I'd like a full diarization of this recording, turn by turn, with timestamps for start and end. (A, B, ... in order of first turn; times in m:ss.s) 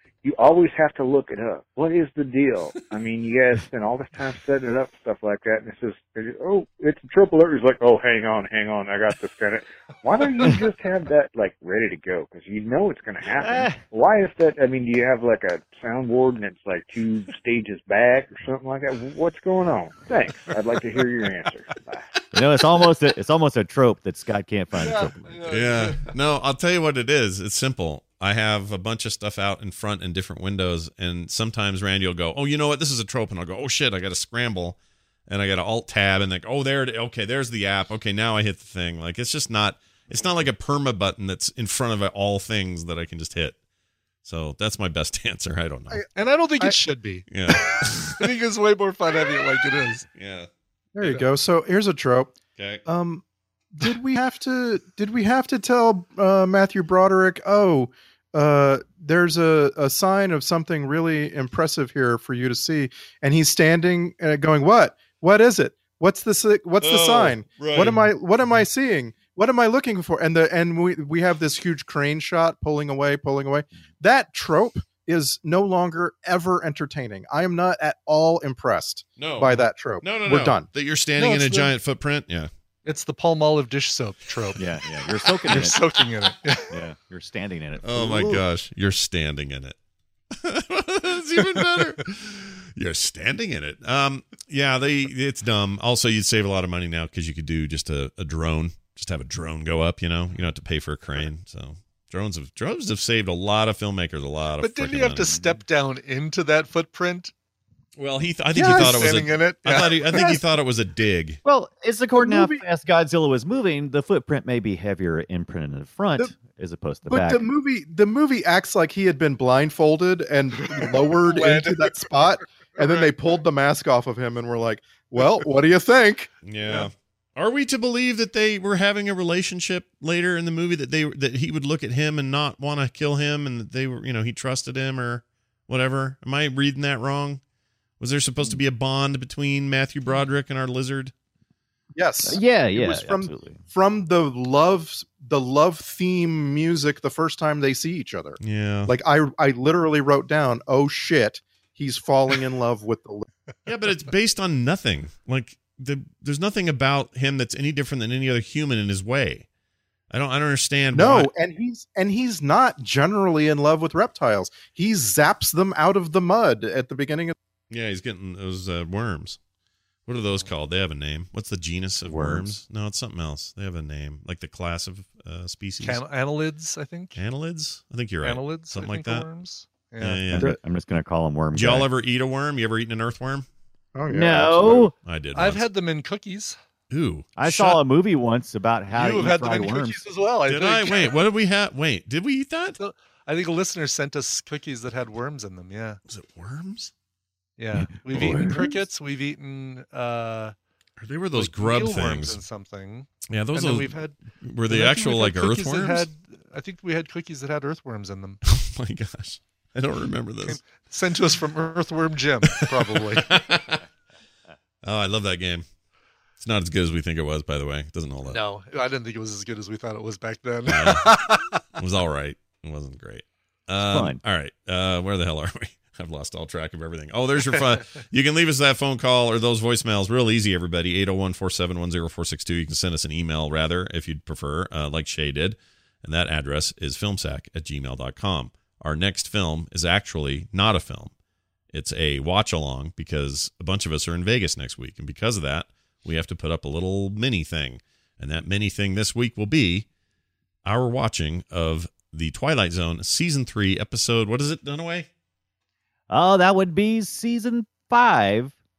0:00.2-0:22.1 A
0:13.4-0:13.8 B
0:22.3-0:25.4 B
0:24.8-0:26.1 C
0:25.5-0:43.6 D
0:44.2-0:46.0 D
0:46.1-0:47.3 C
0:47.3-0:48.3 D
0:48.2-0:50.0 C
0:50.2-0:50.5 D
0:51.0-0:52.3 E
0:52.6-0:52.8 D
0:52.9-0:53.2 E
0:53.7-1:20.7 E
1:06.8-1:08.1 D
1:19.2-1:22.5 D
1:21.2-1:21.7 C
1:22.9-1:24.6 C
1:24.6-1:25.8 B
1:25.5-1:26.7 C
1:26.7-1:28.4 B
1:27.8-1:29.8 D
1:30.4-1:45.4 D
1:44.6-1:47.3 C
1:48.0-1:51.4 D
1:48.5-1:50.2 C
1:48.6-1:49.0 E
1:51.4-1:57.4 B
1:52.2-1:52.6 E
1:57.1-2:06.3 E
2:00.8-2:02.0 C
2:06.4-2:17.4 D
2:18.0-2:21.1 D
2:22.0-2:33.3 E
2:22.2-2:23.6 B
2:28.4-2:28.9 D
2:33.7-2:39.5 D
2:40.1-2:41.3 D
2:40.9-2:47.4 E
2:47.7-2:49.4 D
2:50.1-2:56.0 D
2:52.0-2:52.6 B
2:55.8-2:57.2 C
2:57.2-2:59.3 D
2:58.2-3:00.3 C
3:00.0-3:00.5 D
3:00.3-3:01.9 B
3:01.5-3:03.5 D
3:04.0-3:04.9 E
3:04.1-3:04.9 B
3:05.0-3:05.6 D
3:05.4-3:06.6 C
3:06.9-3:07.7 D
3:07.4-3:10.0 B
3:08.9-3:11.2 C
3:10.5-3:12.8 D
3:12.8-3:16.0 C
3:16.1-3:16.9 D
3:17.6-3:20.6 C
3:17.8-3:18.8 B
3:18.2-3:18.6 D
3:21.0-3:22.4 D
3:21.3-3:24.2 C
3:23.3-3:26.1 D
3:24.7-3:28.4 C
3:28.5-3:30.6 D
3:30.4-3:33.3 C
3:33.2-3:33.8 D
3:34.8-3:35.6 D
3:36.4-3:38.4 D
3:38.3-3:41.5 C
3:40.7-3:41.2 D
3:41.8-4:01.1 D
3:43.8-3:44.2 B
4:01.7-4:09.9 D
4:10.6-4:15.1 D
4:16.1-4:18.6 B